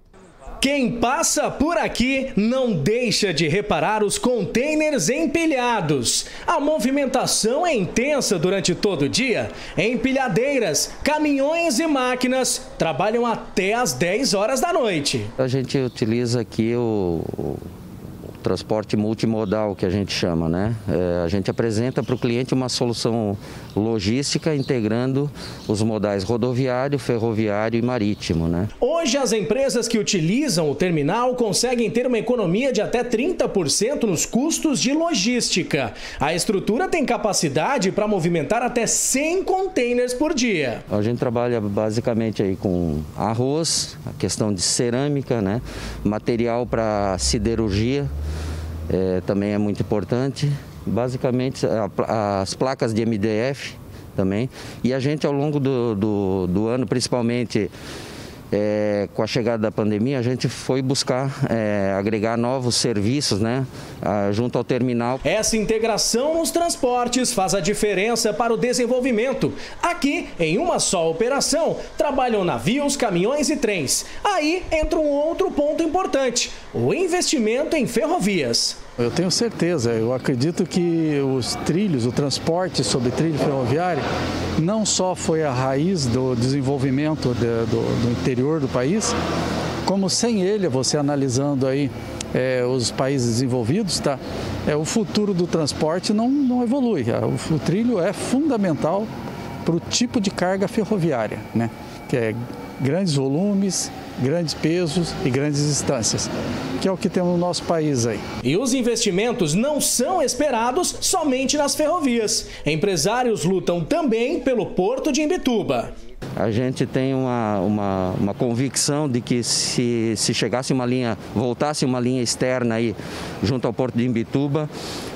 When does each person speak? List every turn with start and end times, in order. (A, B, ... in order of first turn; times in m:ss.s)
0:00.6-0:15.3 A
0:15.4-0:17.7 B
0:18.4-0:28.7 B
0:28.8-0:40.8 A
0:40.9-0:48.1 B
0:48.9-0:57.7 B
0:58.5-1:05.2 B
1:05.2-1:18.8 A
1:19.0-1:24.0 C
1:24.6-1:29.1 C
1:29.8-1:39.1 C
1:39.6-1:48.2 C
1:48.4-1:55.9 A
1:56.4-2:04.7 B